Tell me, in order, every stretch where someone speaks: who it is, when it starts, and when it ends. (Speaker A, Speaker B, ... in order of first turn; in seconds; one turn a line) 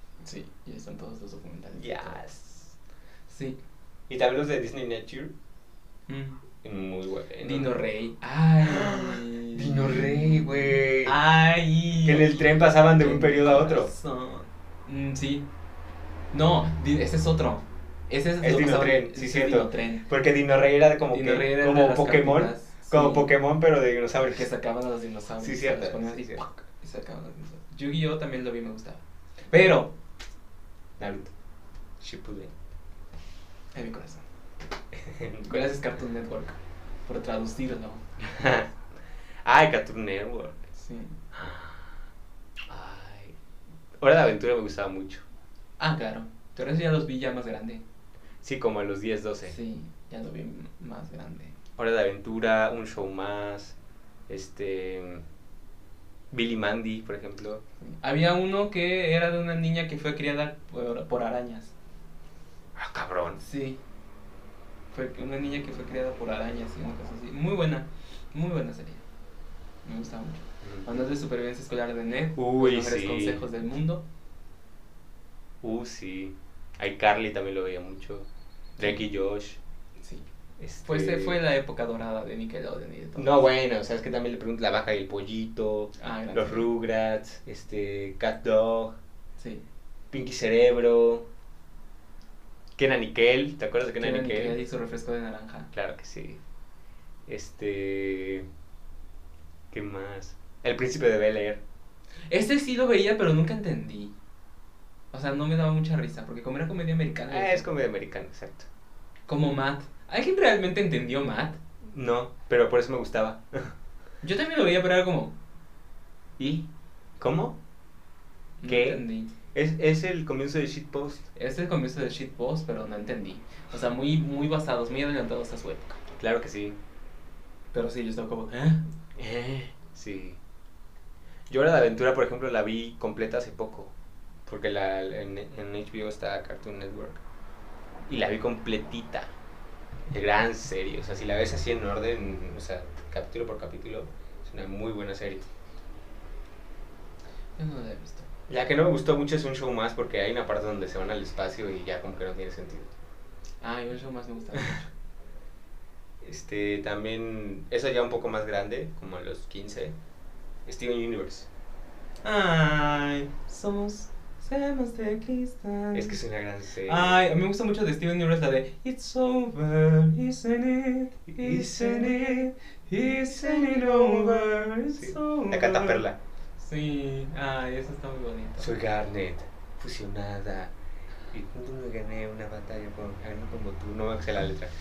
Speaker A: 0.2-2.2
Speaker B: 1.8-2.7
Speaker A: 3.3-3.6
Speaker B: 4.1-5.3
Speaker A: 6.1-6.4
Speaker B: 6.6-7.7
Speaker A: 7.4-15.5
Speaker B: 8.7-11.2
Speaker B: 12.0-13.9
Speaker A: 16.3-20.1
Speaker B: 18.4-24.5
Speaker A: 21.1-23.3
Speaker A: 24.2-29.9
Speaker B: 25.4-26.4
Speaker B: 31.0-31.3
Speaker B: 32.0-32.5
Speaker A: 33.7-34.2
Speaker B: 34.9-35.8
Speaker A: 35.5-38.0
Speaker B: 38.2-38.7
Speaker B: 39.5-40.6
Speaker A: 40.8-41.2
Speaker B: 41.3-42.0
Speaker B: 42.7-43.4
Speaker B: 44.0-45.2
Speaker A: 45.8-47.8
Speaker B: 48.4-49.6
Speaker A: 49.5-51.6
Speaker B: 51.8-53.8
Speaker B: 54.3-55.2
Speaker B: 56.3-57.6
Speaker A: 57.8-61.7
Speaker B: 62.8-63.4
Speaker A: 63.4-63.8
Speaker A: 64.9-69.0
Speaker A: 69.8-74.0
Speaker B: 70.6-70.9
Speaker B: 72.4-73.5
Speaker B: 75.6-79.6
Speaker A: 80.0-80.2
Speaker B: 80.6-81.4
Speaker A: 80.8-83.4
Speaker B: 83.2-89.0
Speaker A: 86.0-86.7
Speaker A: 89.4-89.6
Speaker B: 90.1-91.3
Speaker B: 92.8-94.6
Speaker A: 94.0-95.7
Speaker B: 95.7-96.4
Speaker B: 97.3-98.5
Speaker B: 99.7-101.6
Speaker A: 102.3-104.2
Speaker A: 105.1-107.7
Speaker B: 107.3-108.7
Speaker A: 109.3-111.6
Speaker B: 111.8-113.8
Speaker A: 114.2-115.3
Speaker B: 116.4-117.6
Speaker A: 118.6-119.3
Speaker B: 118.7-121.3
Speaker A: 121.4-126.0
Speaker B: 126.2-126.8
Speaker A: 127.7-128.8
Speaker B: 129.2-130.4
Speaker B: 131.5-133.9
Speaker B: 134.5-137.2
Speaker B: 138.1-139.3
Speaker B: 140.1-145.5
Speaker A: 147.6-148.3
Speaker B: 148.5-152.9
Speaker A: 153.6-154.9
Speaker B: 156.2-160.0
Speaker B: 160.7-161.5
Speaker A: 162.2-166.2
Speaker B: 165.9-167.2
Speaker A: 166.8-176.0
Speaker B: 171.3-176.2
Speaker A: 176.6-178.7
Speaker B: 178.6-180.7
Speaker B: 181.3-184.7